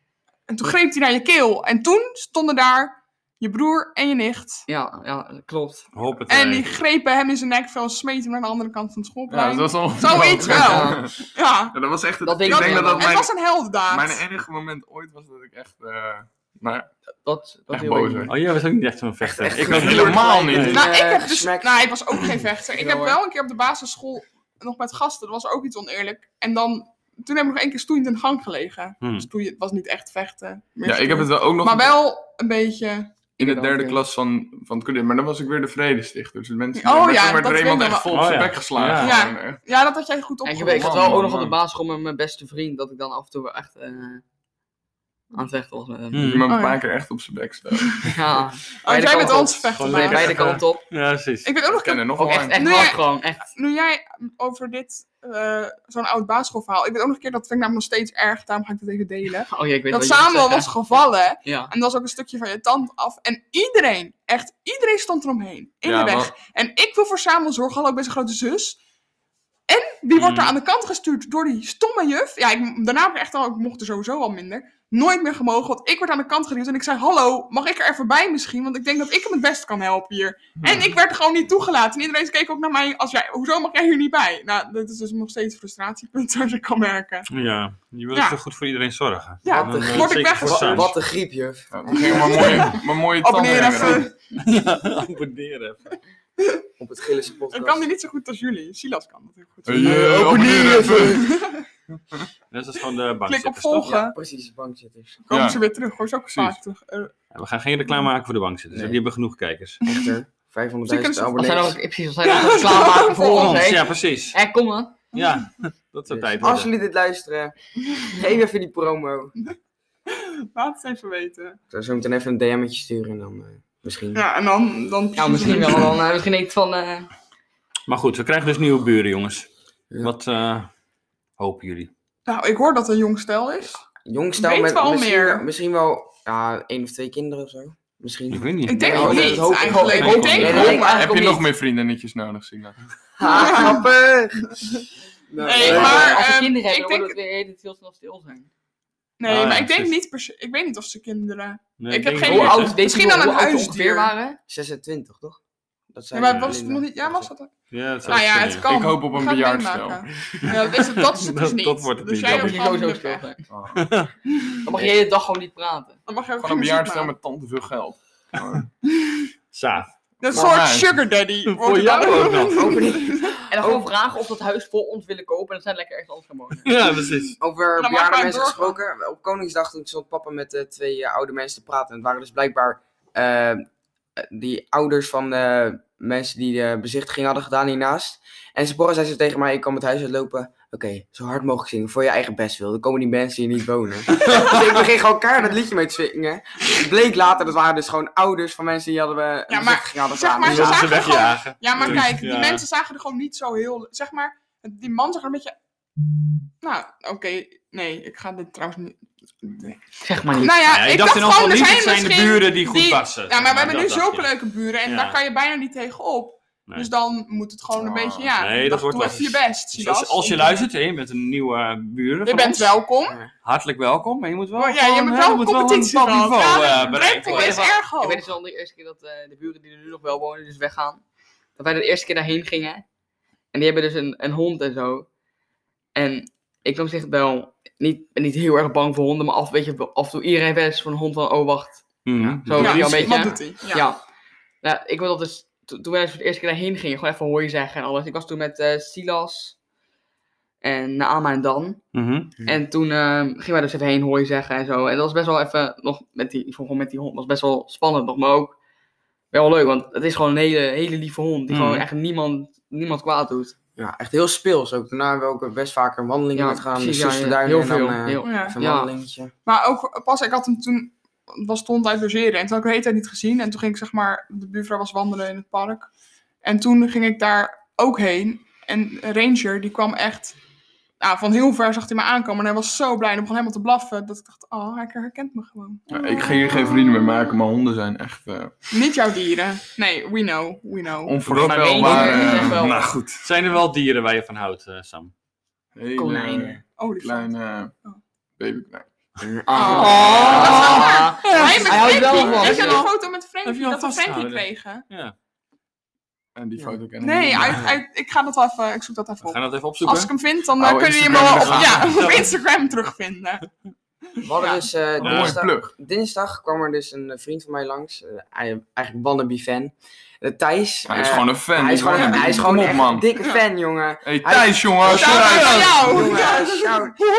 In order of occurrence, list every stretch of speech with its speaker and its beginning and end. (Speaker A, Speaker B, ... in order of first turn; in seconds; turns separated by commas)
Speaker A: 0.5-4.6, Speaker B: 4.7-5.9, Speaker C: 5.9-6.8, Speaker A: 6.3-11.8, Speaker D: 9.3-13.3, Speaker B: 10.4-11.0, Speaker B: 12.2-13.2, Speaker A: 12.4-14.2, Speaker D: 13.9-16.9, Speaker B: 17.2-18.3, Speaker D: 17.7-18.3, Speaker C: 18.3-20.9, Speaker E: 19.2-21.9, Speaker D: 19.6-20.9, Speaker A: 20.7-33.3, Speaker B: 22.7-23.2, Speaker C: 29.0-29.3, Speaker D: 30.8-31.9, Speaker B: 33.4-34.0, Speaker D: 33.4-39.6, Speaker A: 36.8-38.2, Speaker C: 38.1-39.2, Speaker A: 39.0-41.2, Speaker B: 40.4-44.2, Speaker D: 40.5-41.6, Speaker B: 45.3-46.3, Speaker C: 46.1-46.5, Speaker D: 46.1-48.2, Speaker A: 46.5-46.8, Speaker B: 48.0-50.8, Speaker A: 48.8-50.6, Speaker C: 49.7-51.5, Speaker A: 51.4-68.8, Speaker D: 51.6-52.8, Speaker B: 52.1-53.5, Speaker B: 59.5-61.7, Speaker D: 65.8-66.3, Speaker A: 69.7-87.3, Speaker C: 70.1-70.5, Speaker D: 80.6-80.9, Speaker C: 87.3-90.9, Speaker A: 88.1-88.4, Speaker A: 89.4-90.9, Speaker E: 89.5-92.7, Speaker D: 91.7-94.1, Speaker A: 92.0-94.1, Speaker C: 94.3-96.0, Speaker E: 96.8-97.8, Speaker A: 97.5-101.6, Speaker D: 99.6-101.3, Speaker E: 99.7-101.2, Speaker C: 102.5-104.1, Speaker A: 103.3-104.1, Speaker E: 103.8-105.2, Speaker A: 105.3-107.1, Speaker D: 105.3-105.6, Speaker D: 106.3-106.6, Speaker C: 107.3-109.8, Speaker E: 108.7-109.0, Speaker A: 109.8-110.1, Speaker E: 109.8-111.8, Speaker A: 110.9-111.3, Speaker B: 111.3-115.0, Speaker A: 112.2-113.7, Speaker C: 113.3-114.4, Speaker C: 115.1-116.7, Speaker E: 116.1-117.5, Speaker E: 118.0-119.3, Speaker A: 120.1-121.6, Speaker E: 121.7-124.2, Speaker A: 124.1-126.0, Speaker B: 125.1-127.1, Speaker C: 127.9-129.5, Speaker C: 130.0-130.7, Speaker C: 131.4-131.9, Speaker A: 132.3-133.8, Speaker E: 134.0-141.4, Speaker A: 134.4-135.4, Speaker C: 138.3-140.8, Speaker A: 138.6-141.2, Speaker B: 138.9-141.3, Speaker D: 140.5-142.8, Speaker E: 143.2-144.7, Speaker A: 143.2-143.9, Speaker E: 145.3-146.2, Speaker A: 145.4-147.2, Speaker B: 145.5-148.5, Speaker D: 145.7-146.0, Speaker A: 149.2-154.1, Speaker C: 149.2-149.9, Speaker C: 151.8-152.8, Speaker B: 152.2-154.4, Speaker E: 154.5-155.4, Speaker E: 155.9-157.3, Speaker A: 156.1-157.5, Speaker C: 156.2-156.6, Speaker C: 157.7-158.7, Speaker A: 158.0-163.3, Speaker D: 158.6-160.1, Speaker C: 160.4-162.6, Speaker B: 162.3-163.4, Speaker D: 163.5-164.0, Speaker C: 163.7-164.1, Speaker B: 164.6-166.0, Speaker A: 166.1-167.1, Speaker D: 166.4-168.7, Speaker C: 169.5-169.9, Speaker A: 170.2-173.4, Speaker D: 170.3-170.9, Speaker C: 171.4-172.9, Speaker E: 172.4-173.9, Speaker B: 173.5-176.7, Speaker C: 176.6-177.3, Speaker E: 177.4-183.6, Speaker A: 177.8-178.8, Speaker E: 184.2-201.0, Speaker A: 199.5-205.5, Speaker C: 200.4-202.6, Speaker A: 206.6-220.6, Speaker B: 210.0-210.6, Speaker C: 210.7-214.3, Speaker C: 214.8-215.2, Speaker D: 217.7-218.3, Speaker C: 218.4-222.8, Speaker A: 222.2-223.2, Speaker E: 223.0-223.3, Speaker C: 223.4-227.7, Speaker A: 224.6-228.3, Speaker B: 227.0-231.0, Speaker B: 231.6-232.8, Speaker B: 233.5-235.1, Speaker B: 235.9-241.9, Speaker C: 242.0-243.4, Speaker E: 242.2-242.6, Speaker B: 242.4-244.0, Speaker A: 242.6-243.8, Speaker B: 244.6-249.6, Speaker B: 250.6-251.9, Speaker C: 251.9-252.3, Speaker B: 252.4-258.6, Speaker B: 259.3-263.5, Speaker C: 261.5-261.8, Speaker E: 263.8-269.3, Speaker B: 266.3-268.9, Speaker A: 268.2-268.6, Speaker A: 269.4-275.9, Speaker A: 276.4-280.4, Speaker A: 281.0-286.6, Speaker D: 285.9-288.7, Speaker A: 288.7-291.2, Speaker D: 291.0-293.2, Speaker C: 291.2-295.1, Speaker B: 291.3-292.9, Speaker D: 295.7-297.7, Speaker B: 296.0-296.6, Speaker E: 296.0-296.5, Speaker A: 296.8-297.3, Speaker D: 298.4-298.9, Speaker E: 299.2-301.1, Speaker A: 299.5-304.8, Speaker B: 299.5-302.9, Speaker C: 300.0-300.7, Speaker C: 301.2-301.7, Speaker D: 301.8-302.7, Speaker C: 303.4-305.1, Speaker D: 306.4-307.7, Speaker A: 307.0-313.5, Speaker C: 309.2-310.1, Speaker D: 310.6-312.0, Speaker C: 311.1-312.3, Speaker E: 314.2-327.0, Speaker A: 314.4-314.6, Speaker D: 315.0-315.7, Speaker C: 315.0-315.4, Speaker D: 320.9-323.1, Speaker A: 321.9-322.4, Speaker D: 324.0-326.0, Speaker A: 324.8-326.9, Speaker C: 324.9-326.2